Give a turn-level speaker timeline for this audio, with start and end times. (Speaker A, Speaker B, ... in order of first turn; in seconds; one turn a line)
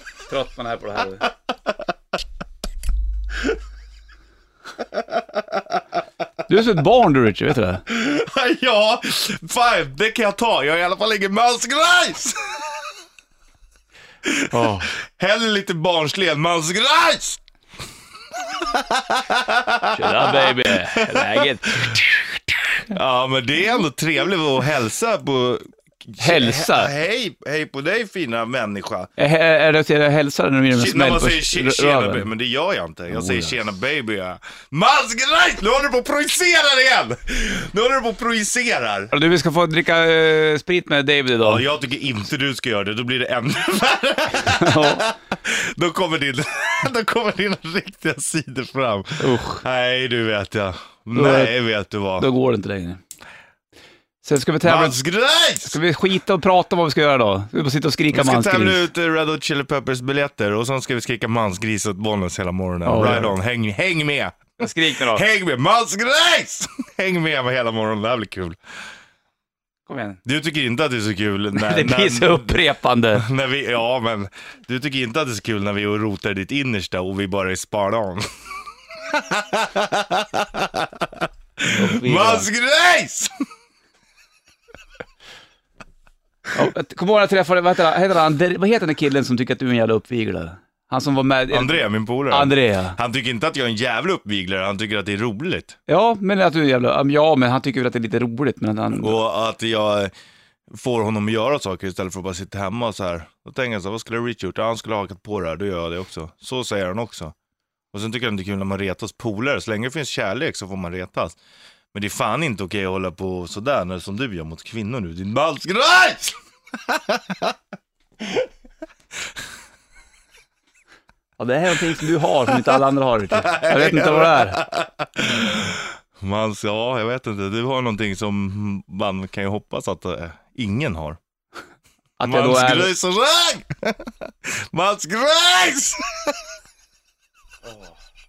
Speaker A: 0.2-1.2
Speaker B: 1.2-1.7
Speaker A: 6.5-7.8
Speaker B: 7.9-12.9
Speaker B: 14.2-17.4
Speaker A: 14.5-14.9
Speaker B: 18.4-22.0
Speaker A: 19.9-22.6
Speaker B: 22.9-29.1
Speaker A: 26.2-26.9
Speaker A: 29.2-32.3
Speaker B: 30.7-39.1
Speaker A: 33.1-33.6
Speaker A: 39.1-41.6
Speaker B: 41.4-52.3
Speaker A: 44.5-45.0
Speaker A: 49.2-49.6
Speaker A: 51.1-51.6
Speaker A: 52.2-53.0
Speaker A: 54.2-55.0
Speaker B: 54.6-55.8
Speaker A: 55.6-58.9
Speaker B: 58.1-68.6
Speaker A: 62.9-63.4
Speaker A: 64.6-65.2
Speaker A: 69.9-70.2
Speaker B: 70.2-72.6
Speaker A: 71.5-73.2
Speaker B: 73.1-78.2
Speaker B: 79.0-83.3
Speaker A: 81.7-82.5
Speaker A: 86.5-93.0
Speaker B: 91.5-95.8
Speaker A: 95.9-99.2
Speaker B: 99.0-100.1
Speaker B: 100.7-107.3
Speaker B: 107.9-111.4
Speaker B: 111.9-117.5
Speaker A: 121.4-124.6
Speaker B: 122.4-131.2
Speaker A: 132.2-132.9
Speaker B: 132.2-136.4